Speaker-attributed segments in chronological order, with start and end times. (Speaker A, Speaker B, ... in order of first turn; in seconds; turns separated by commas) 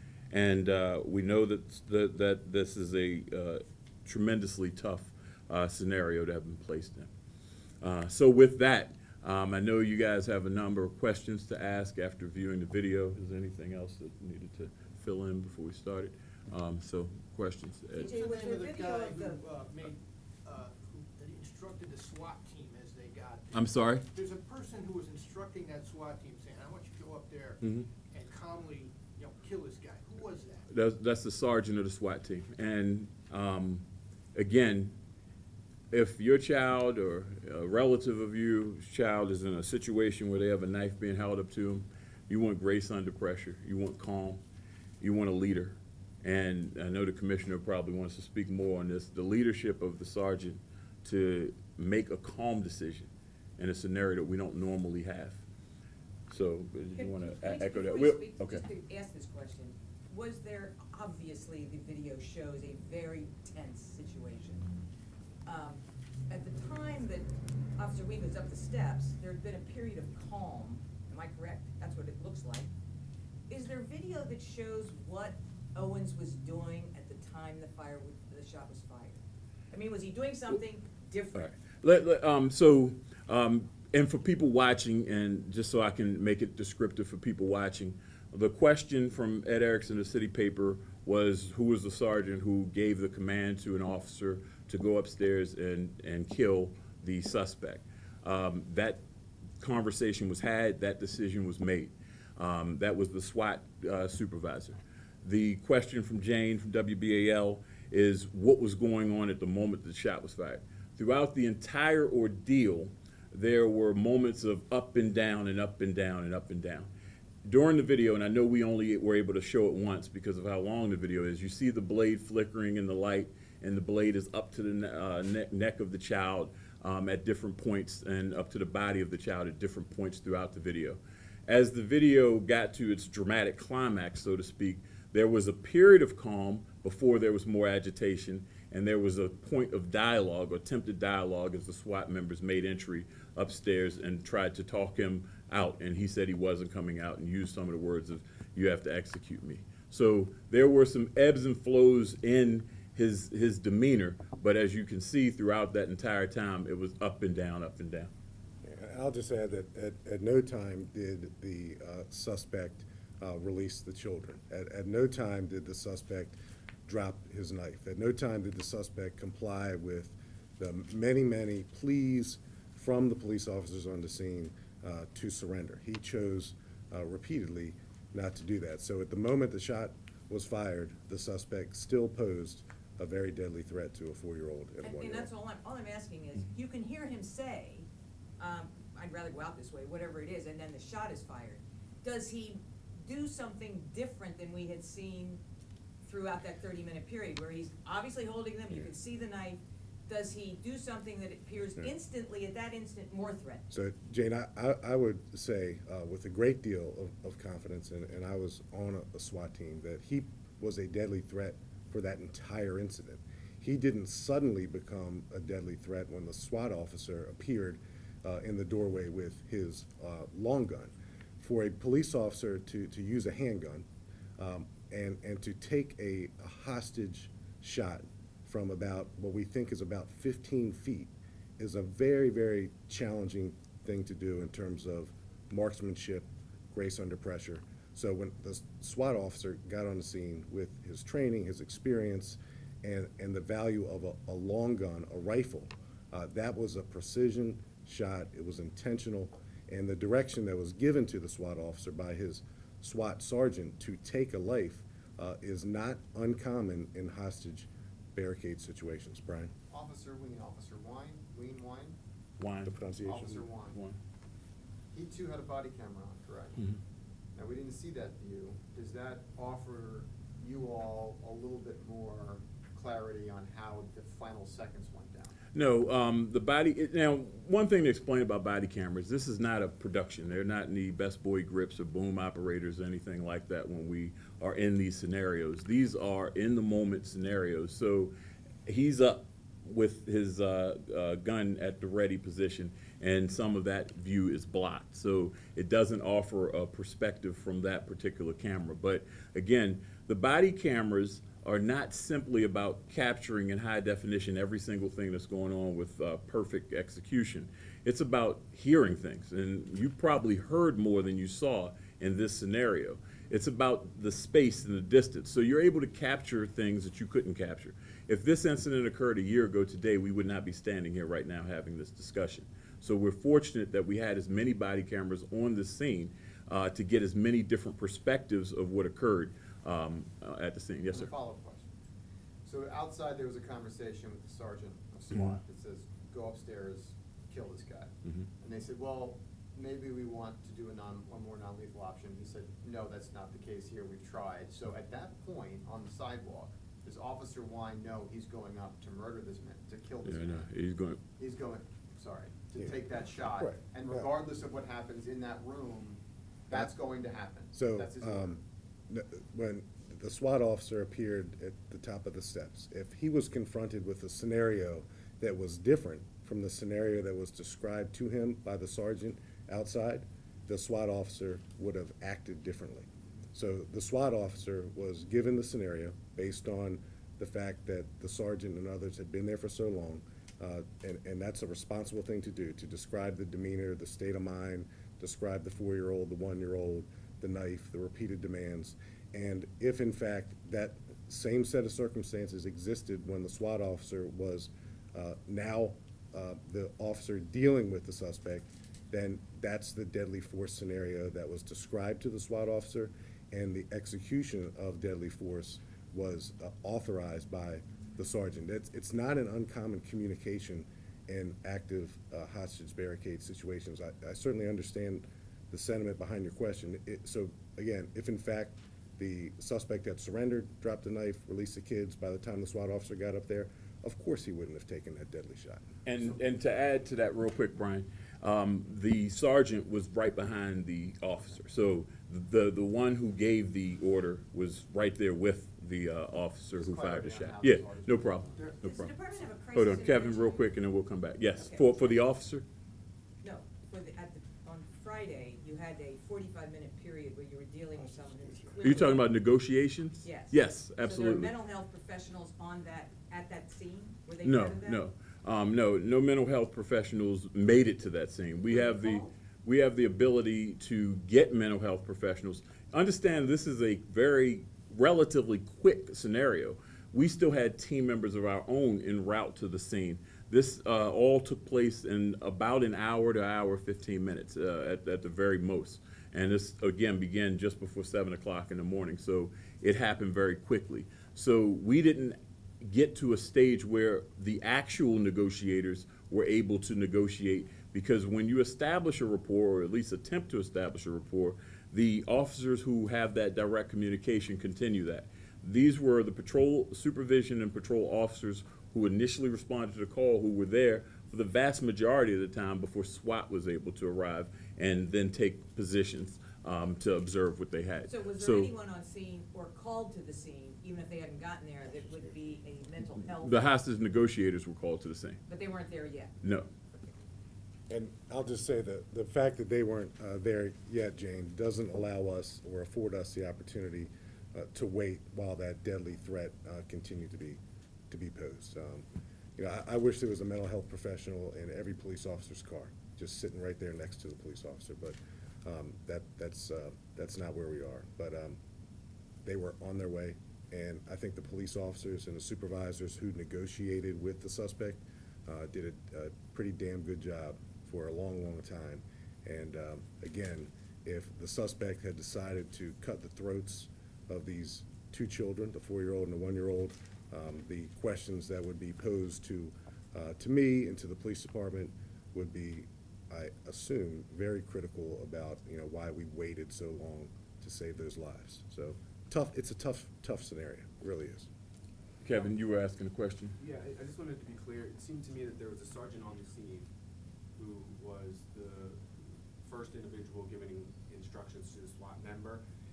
Speaker A: 0.3-7.1, Speaker A: 7.8-18.1, Speaker B: 17.9-30.6, Speaker C: 18.0-19.4, Speaker A: 23.5-24.0, Speaker A: 27.6-27.9, Speaker A: 30.7-35.0, Speaker A: 35.9-44.4, Speaker A: 45.0-55.4, Speaker A: 56.3-58.6, Speaker C: 57.0-64.7, Speaker C: 65.5-72.7, Speaker C: 73.5-81.5, Speaker A: 81.3-99.0, Speaker A: 99.6-116.9, Speaker A: 117.4-158.1, Speaker D: 158.6-185.3, Speaker C: 184.8-187.9, Speaker C: 188.4-195.4, Speaker C: 196.0-203.7, Speaker D: 203.7-223.9, Speaker D: 224.4-259.5, Speaker E: 259.7-262.0, Speaker A: 262.4-263.0, Speaker D: 262.6-263.4, Speaker E: 263.0-263.8, Speaker A: 263.7-264.0, Speaker E: 264.9-266.6, Speaker E: 267.3-275.4, Speaker A: 275.5-288.1, Speaker A: 288.6-331.1, Speaker E: 330.9-331.6, Speaker E: 332.4-350.5, Speaker A: 335.1-335.4, Speaker A: 350.0-351.0, Speaker E: 351.2-358.4, Speaker D: 353.3-354.1, Speaker D: 357.5-425.7, Speaker A: 425.8-438.9, Speaker E: 436.6-438.6, Speaker C: 438.4-440.5, Speaker A: 439.5-442.4, Speaker C: 441.4-441.7, Speaker C: 443.2-449.1, Speaker A: 448.6-451.3, Speaker C: 450.0-454.8, Speaker A: 454.2-508.5, Speaker C: 458.5-459.1, Speaker C: 507.9-513.4, Speaker A: 513.2-515.2, Speaker C: 515.3-516.1, Speaker A: 516.2-516.5, Speaker D: 517.7-538.4, Speaker D: 539.2-571.3, Speaker A: 572.0-573.4, Speaker F: 573.4-576.7, Speaker F: 577.4-582.4